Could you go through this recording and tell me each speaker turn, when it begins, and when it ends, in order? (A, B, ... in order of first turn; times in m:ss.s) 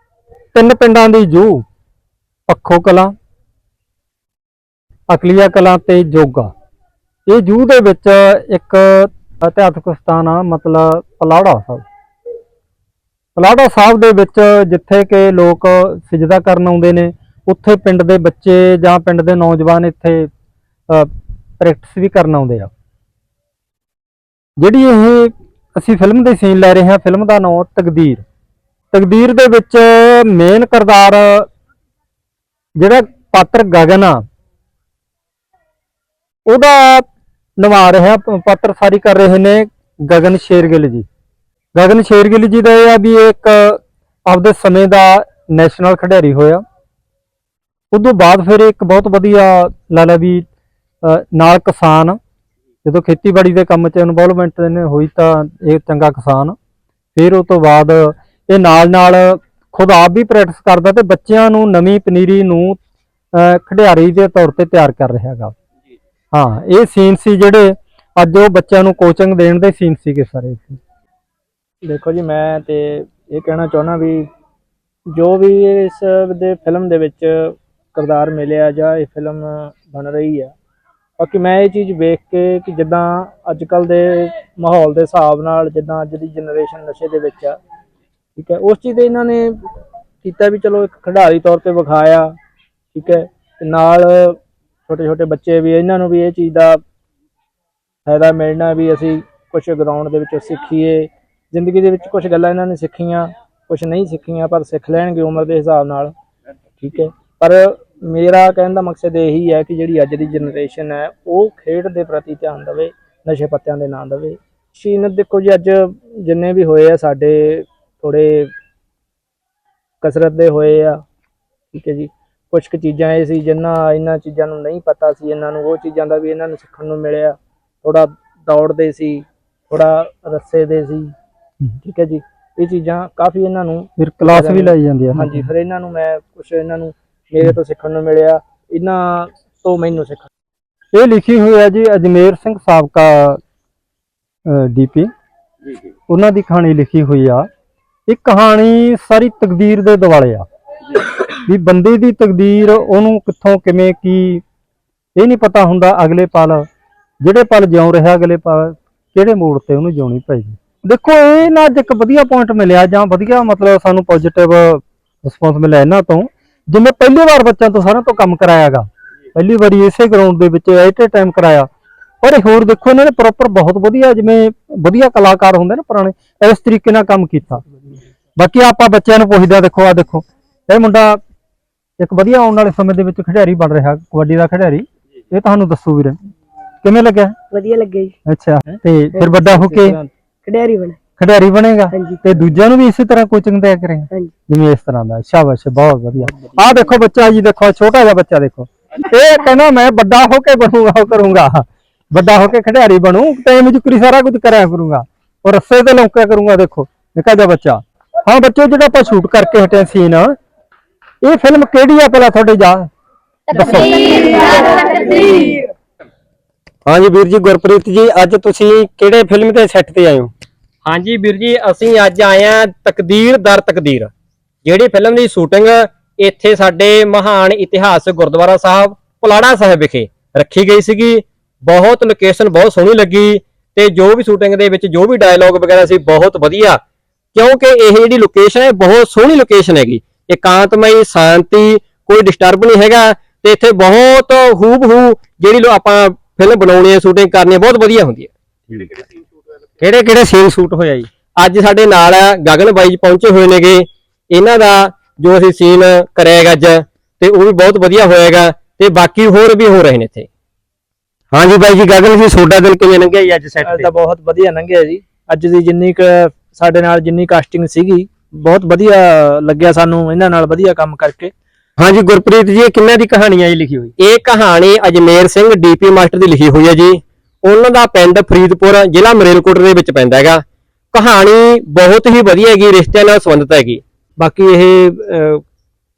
0:00.5-0:01.6 A
0:02.5-0:03.1 A
0:05.1-0:06.5 A
0:07.3-0:11.8 A
0:13.4-0:20.3 A
0:20.9-0:22.7 A
0:24.6-0:28.2 A
0:28.9-0:31.5 A
0:32.8-0:34.2 A
0:36.4-0:37.1 A
0:37.6-0:41.0 A
0:41.7-0:46.6 A
0:47.9-0:50.4 A
0:51.0-0:52.2 A
0:52.8-0:56.6 A
0:57.1-1:02.8 A
1:03.3-1:05.5 A
1:06.3-1:10.8 A
1:11.8-1:14.3 B
1:15.1-1:20.5 B
1:21.2-1:27.6 B
1:28.4-1:29.6 B
1:30.2-1:32.3 B
1:32.9-1:36.8 B
1:38.0-1:46.1 B
1:46.8-1:58.5 B
2:00.0-2:01.0 B
2:01.7-2:11.1 B
2:11.8-2:20.3 B
2:14.0-2:15.5 A
2:20.9-2:23.4 A
2:24.4-2:25.1 A
2:26.1-2:27.5 A
2:28.1-2:30.4 A
2:31.4-2:34.4 A
2:35.2-2:36.6 A
2:37.2-2:51.7 A
2:52.2-2:57.6 A
2:58.4-3:01.2 A
3:02.0-3:06.2 A
3:06.8-3:07.4 A
3:07.5-3:08.1 C
3:08.3-3:10.0 A
3:09.1-3:09.8 C
3:09.8-3:10.1 B
3:10.4-3:11.0 C
3:11.2-3:30.3 A
3:11.9-3:12.2 C
3:31.2-3:32.9 A
3:33.5-3:34.7 A
3:36.8-3:40.3 D
3:40.8-3:44.1 D
3:44.6-3:56.8 D
3:57.3-4:09.0 D
4:09.8-4:20.3 D
4:21.3-4:23.9 D
4:23.6-4:31.3 B
4:31.8-4:43.8 D
4:44.2-4:45.4 B